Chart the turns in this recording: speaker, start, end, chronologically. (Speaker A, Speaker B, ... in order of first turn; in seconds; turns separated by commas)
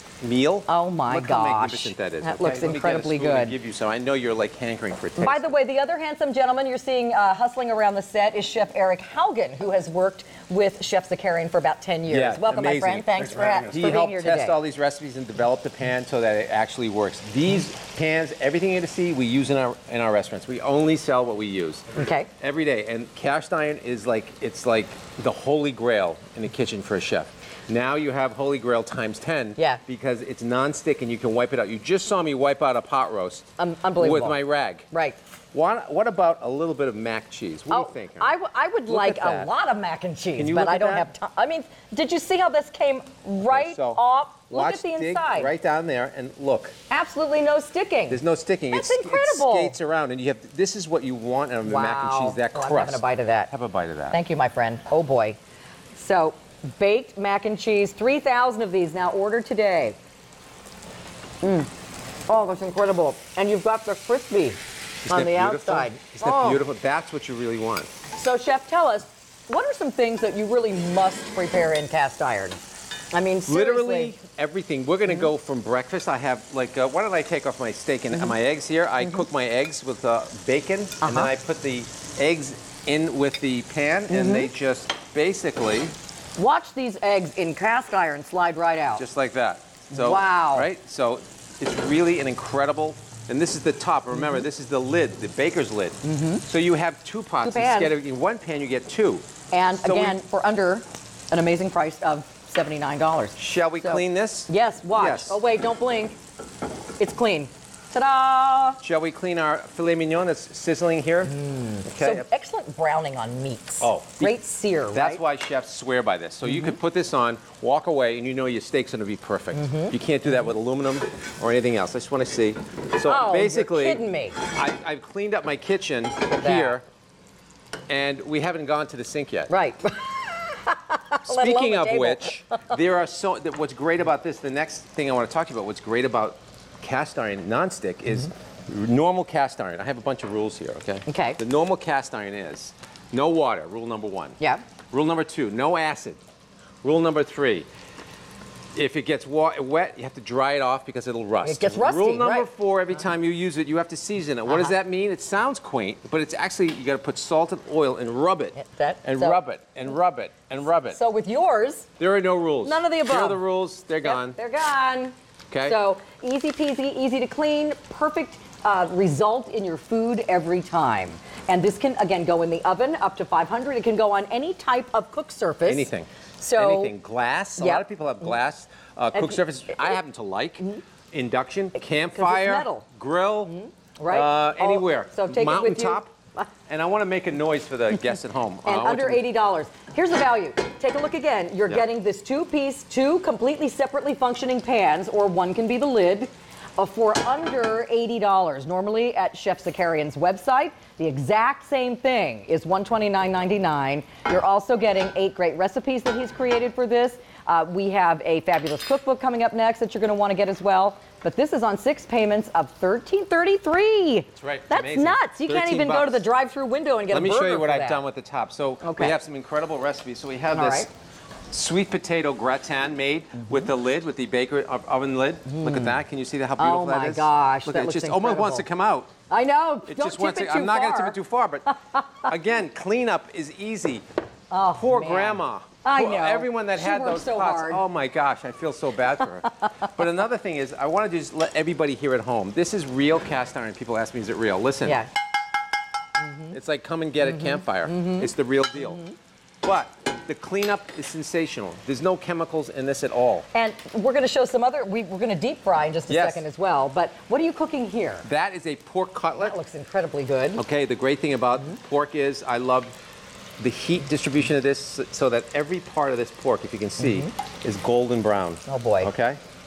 Speaker A: 0.2-5.4, Speaker B: 0.7-3.5, Speaker B: 5.2-14.6, Speaker A: 12.1-33.4, Speaker B: 21.9-22.3, Speaker B: 33.6-34.4, Speaker A: 34.0-34.9, Speaker B: 34.9-35.2, Speaker A: 35.5-38.3, Speaker B: 37.7-45.5, Speaker A: 38.9-39.5, Speaker A: 40.4-41.1, Speaker A: 43.5-46.7, Speaker B: 46.9-48.2, Speaker A: 48.1-54.2, Speaker B: 48.7-49.8, Speaker B: 51.6-53.5, Speaker B: 54.1-55.4, Speaker B: 55.9-60.0, Speaker B: 61.4-61.7, Speaker B: 62.3-66.6, Speaker A: 65.0-67.9, Speaker B: 68.1-72.6, Speaker B: 73.1-74.1, Speaker A: 73.5-85.9, Speaker B: 81.0-81.3, Speaker B: 84.1-84.5, Speaker B: 86.4-89.0, Speaker A: 89.0-99.2, Speaker B: 89.9-90.7, Speaker B: 96.0-96.4, Speaker B: 97.4-97.9, Speaker B: 99.5-106.2, Speaker A: 99.8-100.2, Speaker A: 103.4-105.4, Speaker B: 107.0-108.8, Speaker A: 108.8-112.2, Speaker B: 111.3-115.2, Speaker A: 113.8-114.3, Speaker A: 114.9-126.8, Speaker B: 116.5-116.8, Speaker B: 119.5-119.9, Speaker B: 123.0-124.4, Speaker B: 126.3-126.8, Speaker A: 127.9-129.5, Speaker B: 129.5-132.7, Speaker A: 131.2-144.4, Speaker B: 141.1-141.4, Speaker A: 144.9-146.2, Speaker A: 146.8-147.7, Speaker A: 148.7-161.0, Speaker B: 151.4-152.5, Speaker B: 154.5-154.7, Speaker B: 158.5-159.4, Speaker B: 160.9-161.9, Speaker A: 162.0-164.4, Speaker B: 162.6-163.4, Speaker B: 164.0-176.9, Speaker A: 165.5-165.8, Speaker A: 175.7-183.5, Speaker B: 177.6-178.3, Speaker B: 179.1-180.0, Speaker B: 182.1-182.8, Speaker B: 183.4-186.5, Speaker A: 184.1-186.1, Speaker A: 186.7-189.2, Speaker B: 188.6-218.0, Speaker A: 214.3-216.2, Speaker A: 217.1-220.9, Speaker B: 218.8-219.1, Speaker B: 220.5-220.9, Speaker A: 221.5-229.1, Speaker B: 223.4-223.7, Speaker B: 225.4-226.0, Speaker B: 226.6-228.6, Speaker B: 229.3-231.2, Speaker A: 229.8-231.7, Speaker B: 231.7-232.3, Speaker A: 232.2-234.0, Speaker B: 234.5-237.8, Speaker A: 234.8-245.0, Speaker B: 244.8-245.1, Speaker B: 246.2-246.5, Speaker A: 246.5-249.0, Speaker B: 247.2-249.1, Speaker A: 249.6-253.5, Speaker B: 253.5-258.2, Speaker A: 256.1-256.4, Speaker A: 258.2-259.6, Speaker B: 259.4-260.6, Speaker A: 260.6-262.9, Speaker A: 263.6-269.4, Speaker B: 267.0-267.3, Speaker B: 268.6-269.1